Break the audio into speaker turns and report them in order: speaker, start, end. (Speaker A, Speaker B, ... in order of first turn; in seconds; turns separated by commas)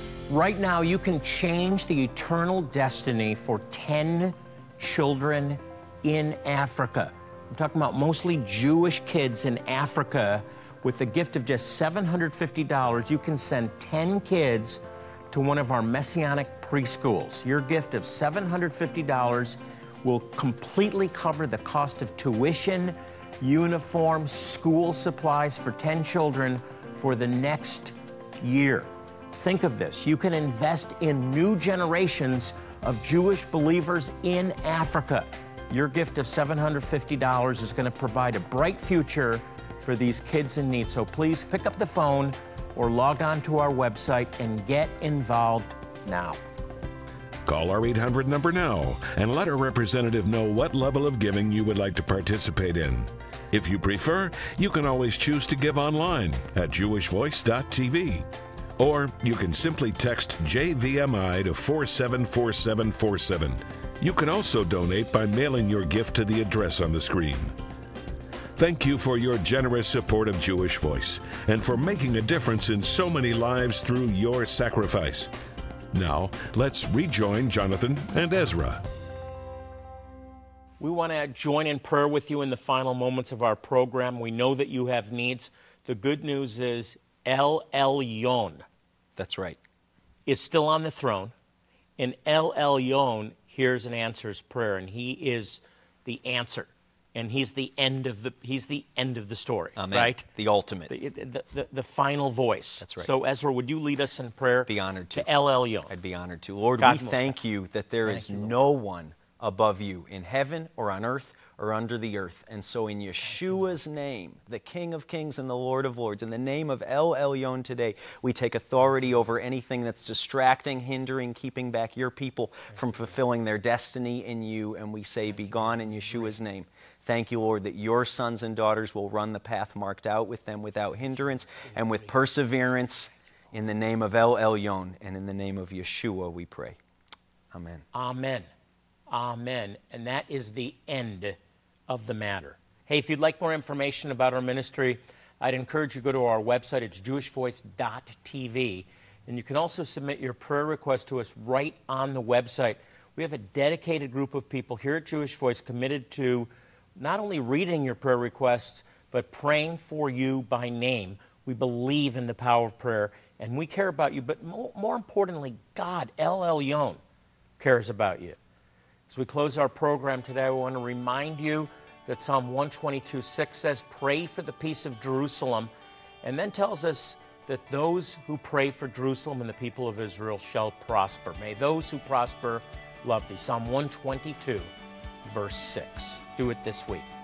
Speaker A: 0.3-14.8, Speaker A: 15.3-46.4, Speaker B: 47.5-58.3, Speaker B: 58.8-67.5, Speaker B: 68.5-75.3, Speaker B: 75.9-78.8, Speaker A: 80.8-88.6, Speaker C: 89.2-89.6, Speaker A: 90.2-91.3, Speaker A: 92.0-100.2, Speaker C: 99.8-100.9, Speaker A: 100.9-105.9, Speaker C: 102.8-103.1, Speaker C: 104.7-105.3, Speaker C: 105.9-136.8, Speaker A: 106.8-107.4, Speaker A: 108.0-108.5, Speaker A: 125.5-126.3, Speaker C: 137.5-137.8, Speaker A: 137.9-138.5, Speaker A: 139.1-141.4, Speaker A: 141.9-167.0, Speaker A: 167.6-168.4, Speaker A: 169.1-175.7, Speaker A: 176.2-184.7, Speaker A: 185.2-187.1